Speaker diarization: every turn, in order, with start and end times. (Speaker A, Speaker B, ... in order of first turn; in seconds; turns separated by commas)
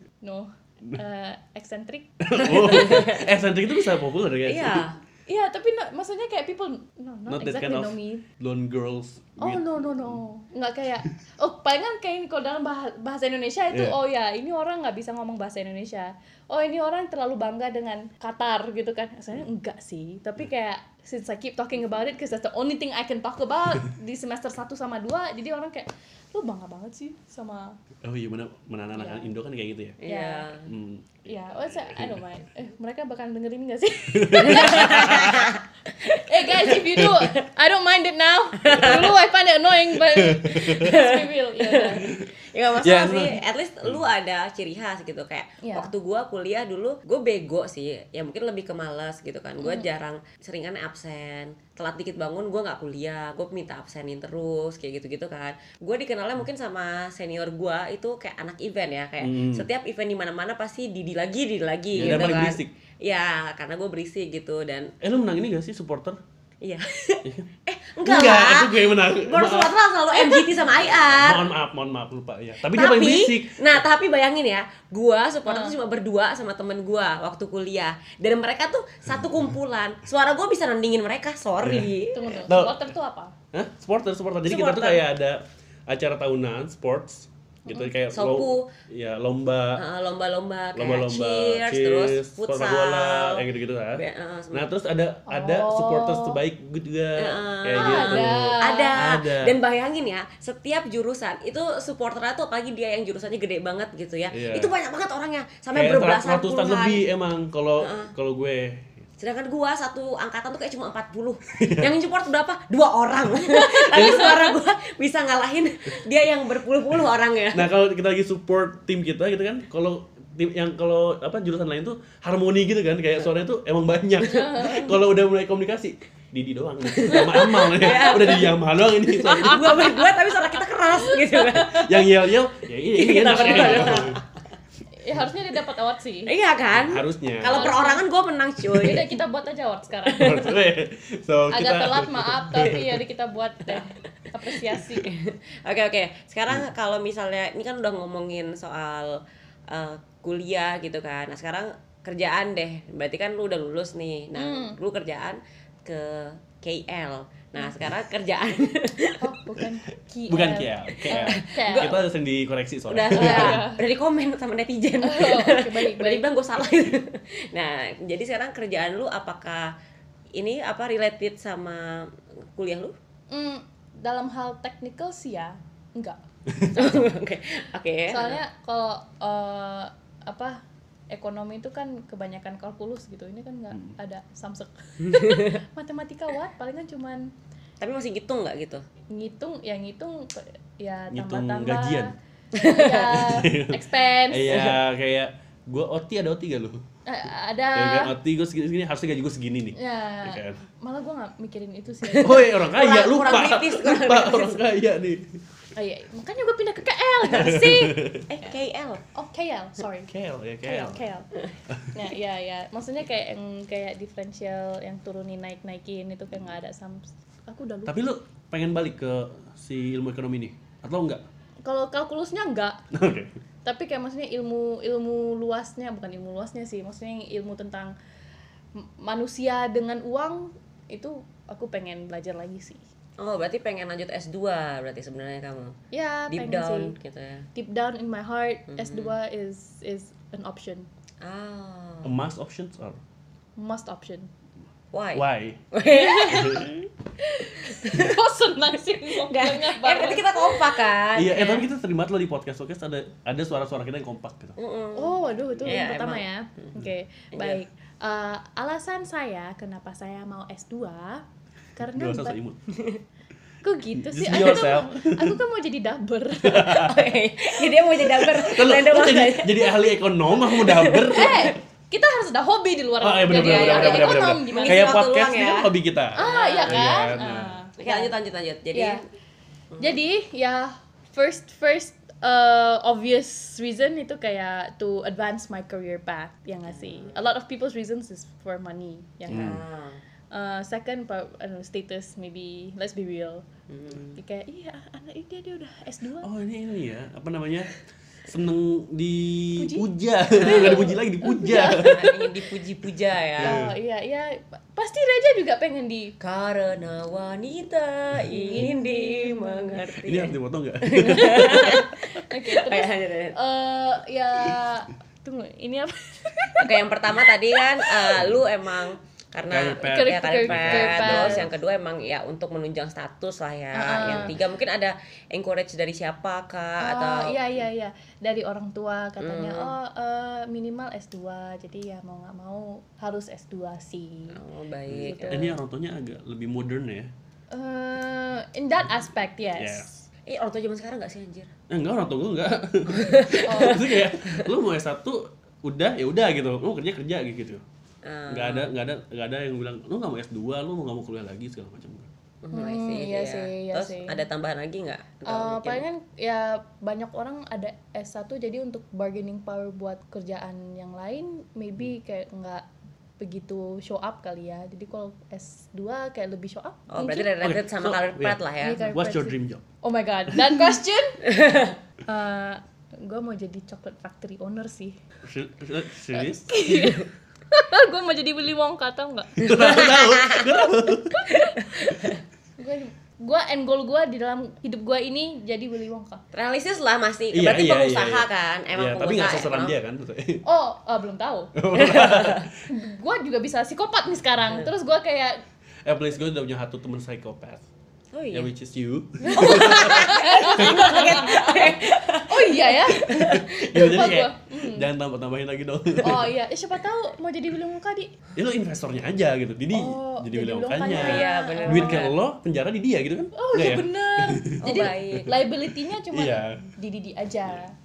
Speaker A: 0.2-3.2, Speaker B: 2.2-4.9, Speaker C: 2.7-3.2, Speaker C: 4.5-5.0, Speaker A: 5.3-8.3, Speaker B: 7.3-10.2, Speaker A: 9.4-27.8, Speaker B: 13.7-14.0, Speaker B: 28.0-30.0, Speaker A: 28.9-29.3, Speaker C: 30.0-30.7, Speaker A: 30.0-30.5, Speaker B: 30.7-31.3, Speaker A: 31.2-42.1, Speaker B: 31.9-32.1, Speaker B: 34.1-35.4, Speaker C: 34.4-37.1, Speaker C: 38.6-39.1, Speaker B: 40.4-40.8, Speaker C: 40.7-64.9, Speaker B: 42.8-44.0, Speaker A: 45.6-45.9, Speaker A: 49.6-49.9, Speaker B: 59.2-59.7, Speaker B: 61.9-62.7, Speaker B: 65.0-66.2, Speaker C: 66.6-71.5, Speaker B: 68.0-69.8, Speaker B: 70.9-73.8, Speaker C: 72.7-82.4, Speaker A: 75.5-75.8, Speaker B: 81.6-81.9, Speaker A: 82.1-83.3, Speaker B: 82.5-82.8, Speaker B: 83.5-89.8, Speaker C: 84.5-85.0, Speaker A: 87.7-87.9, Speaker C: 88.1-88.7, Speaker C: 89.8-94.7, Speaker B: 90.8-99.6, Speaker A: 95.3-96.4, Speaker C: 97.2-107.0, Speaker A: 97.8-99.0, Speaker B: 104.3-104.7, Speaker B: 105.8-108.9, Speaker C: 107.8-108.1, Speaker C: 109.2-117.7, Speaker B: 111.5-111.9, Speaker B: 113.9-114.4, Speaker B: 117.5-129.8, Speaker A: 124.3-124.9, Speaker C: 127.0-128.6, Speaker A: 127.1-128.5, Speaker C: 129.2-131.9, Speaker A: 129.3-130.1, Speaker A: 131.1-131.7, Speaker B: 131.7-134.2, Speaker C: 132.9-134.2, Speaker A: 133.2-134.2, Speaker A: 135.0-136.3, Speaker C: 136.3-139.1, Speaker B: 136.7-137.8, Speaker A: 137.5-138.0, Speaker A: 138.8-140.4, Speaker C: 140.1-140.5, Speaker B: 140.2-143.0, Speaker A: 141.5-145.1, Speaker C: 144.7-159.2, Speaker A: 154.4-154.8, Speaker A: 159.2-161.9, Speaker B: 160.3-163.7, Speaker C: 160.9-162.0, Speaker C: 162.9-169.7, Speaker A: 163.1-163.8, Speaker A: 165.0-166.2, Speaker C: 170.3-172.9, Speaker A: 173.3-177.1, Speaker C: 176.8-178.4, Speaker A: 178.1-187.3, Speaker C: 185.1-185.6, Speaker C: 187.8-188.8, Speaker A: 189.1-194.8, Speaker B: 191.1-192.1, Speaker B: 192.9-196.8, Speaker A: 197.1-198.1, Speaker B: 197.7-200.6, Speaker A: 199.8-202.6, Speaker B: 202.1-205.4, Speaker C: 202.6-204.6, Speaker A: 205.8-208.6, Speaker B: 207.3-208.3, Speaker C: 208.3-209.0, Speaker A: 209.1-210.1, Speaker B: 210.1-211.1, Speaker A: 210.7-211.3, Speaker A: 211.9-218.0, Speaker B: 217.9-221.2, Speaker A: 221.7-222.8, Speaker B: 222.9-223.3, Speaker A: 223.6-227.9, Speaker A: 228.8-232.8, Speaker C: 233.2-235.8, Speaker A: 235.9-236.9, Speaker C: 236.3-237.5, Speaker A: 237.6-240.9, Speaker C: 238.7-239.1, Speaker C: 241.2-242.1, Speaker B: 242.0-243.0, Speaker A: 243.6-244.3, Speaker C: 244.9-246.8, Speaker B: 245.2-245.6, Speaker A: 245.9-250.8, Speaker B: 246.3-246.7, Speaker C: 247.7-247.9, Speaker C: 249.1-251.7, Speaker B: 251.1-254.6, Speaker C: 254.6-256.7, Speaker A: 254.9-261.2, Speaker C: 257.3-257.6, Speaker A: 261.8-262.4, Speaker B: 261.8-262.6, Speaker C: 262.7-263.0, Speaker A: 263.6-266.9, Speaker B: 264.0-265.4, Speaker B: 266.4-267.0, Speaker C: 266.8-269.8, Speaker B: 268.0-271.5, Speaker C: 270.5-271.6, Speaker A: 271.1-275.0, Speaker B: 273.0-277.6, Speaker C: 273.3-277.1, Speaker A: 276.1-278.1, Speaker C: 277.8-279.0, Speaker A: 278.7-279.0, Speaker A: 279.8-289.6, Speaker C: 286.7-287.1, Speaker B: 289.3-289.6, Speaker C: 289.3-290.0, Speaker A: 290.3-293.5, Speaker C: 293.7-294.2, Speaker A: 294.1-296.3, Speaker B: 296.2-297.7, Speaker B: 298.3-302.3, Speaker A: 299.6-299.9, Speaker C: 300.4-300.9, Speaker A: 300.4-302.1, Speaker C: 301.6-303.6, Speaker B: 303.4-303.7, Speaker A: 303.4-306.1, Speaker C: 306.2-313.4, Speaker A: 308.3-309.8, Speaker B: 310.0-311.8, Speaker A: 311.1-318.2, Speaker C: 316.6-327.7, Speaker B: 318.2-318.4, Speaker B: 319.5-321.5, Speaker A: 319.9-321.4, Speaker A: 323.7-324.3, Speaker A: 326.8-334.4, Speaker C: 329.2-329.8, Speaker C: 334.3-335.5, Speaker B: 334.9-337.1, Speaker A: 335.1-335.6, Speaker A: 337.5-339.9, Speaker B: 339.6-339.9, Speaker C: 340.3-341.5, Speaker B: 341.7-347.6, Speaker C: 342.9-344.5, Speaker A: 343.4-343.8, Speaker C: 348.0-348.7, Speaker B: 348.3-352.1, Speaker C: 352.4-355.8, Speaker A: 352.5-354.2, Speaker A: 355.3-362.7, Speaker A: 363.2-367.3, Speaker C: 366.9-368.8, Speaker B: 367.4-369.6, Speaker A: 368.6-375.0, Speaker B: 370.3-370.6, Speaker C: 371.3-371.7, Speaker B: 375.2-376.5, Speaker A: 376.2-379.8, Speaker C: 379.4-380.5, Speaker B: 379.4-381.3, Speaker C: 381.3-382.2, Speaker A: 382.6-386.2, Speaker C: 386.3-389.8, Speaker B: 387.3-390.4, Speaker A: 390.4-391.5, Speaker B: 391.6-392.5, Speaker C: 391.8-392.5, Speaker A: 392.7-395.4, Speaker B: 395.9-397.6, Speaker C: 398.1-398.5, Speaker B: 398.3-401.3, Speaker C: 399.2-403.8, Speaker A: 399.3-403.1, Speaker B: 403.0-406.3, Speaker A: 403.7-404.9, Speaker A: 406.0-408.1, Speaker B: 408.4-416.7, Speaker A: 409.7-412.1, Speaker C: 410.9-412.1, Speaker A: 413.4-417.8, Speaker C: 414.6-415.4